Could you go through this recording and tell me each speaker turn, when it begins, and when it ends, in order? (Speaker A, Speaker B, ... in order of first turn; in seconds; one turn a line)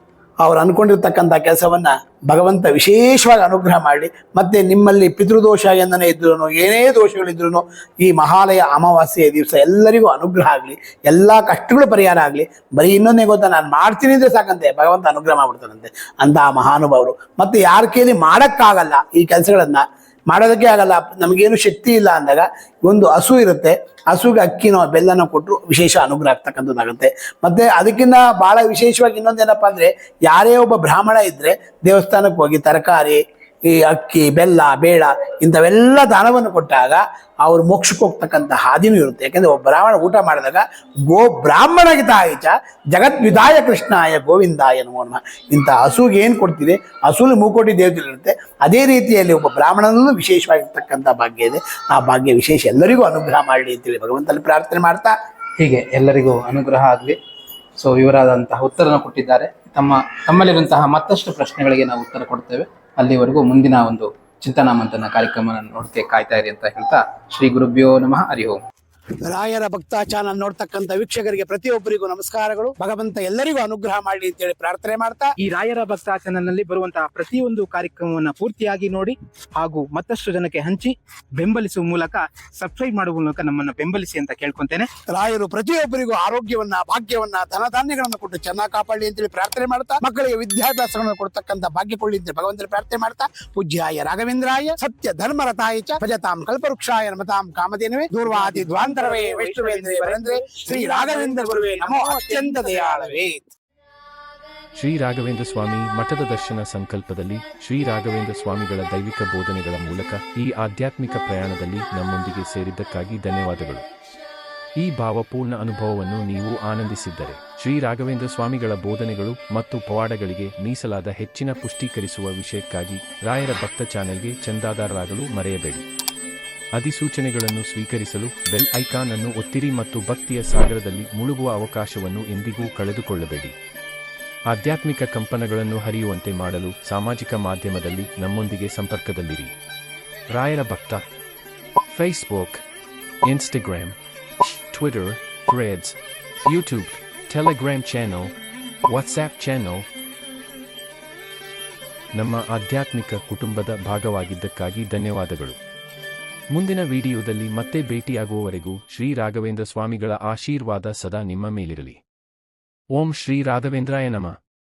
Speaker A: 0.4-55.1
Speaker B: 55.6-57.2
Speaker B: 57.8-68.6
Speaker A: 69.2-75.3
Speaker B: 75.4-84.9
Speaker A: 85.1-103.5
Speaker B: 98.3-103.1
Speaker C: 104.7-113.8
Speaker C: 114.8-125.8
Speaker C: 126.7-133.5
Speaker C: 134.5-139.5
Speaker C: 140.3-141.0
Speaker C: 141.9-142.6
Speaker C: 143.2-143.9
Speaker C: 144.7-148.3
Speaker C: 148.9-149.8
Speaker C: 152.2-155.6
Speaker C: 156.5-162.0
Speaker C: 162.9-164.4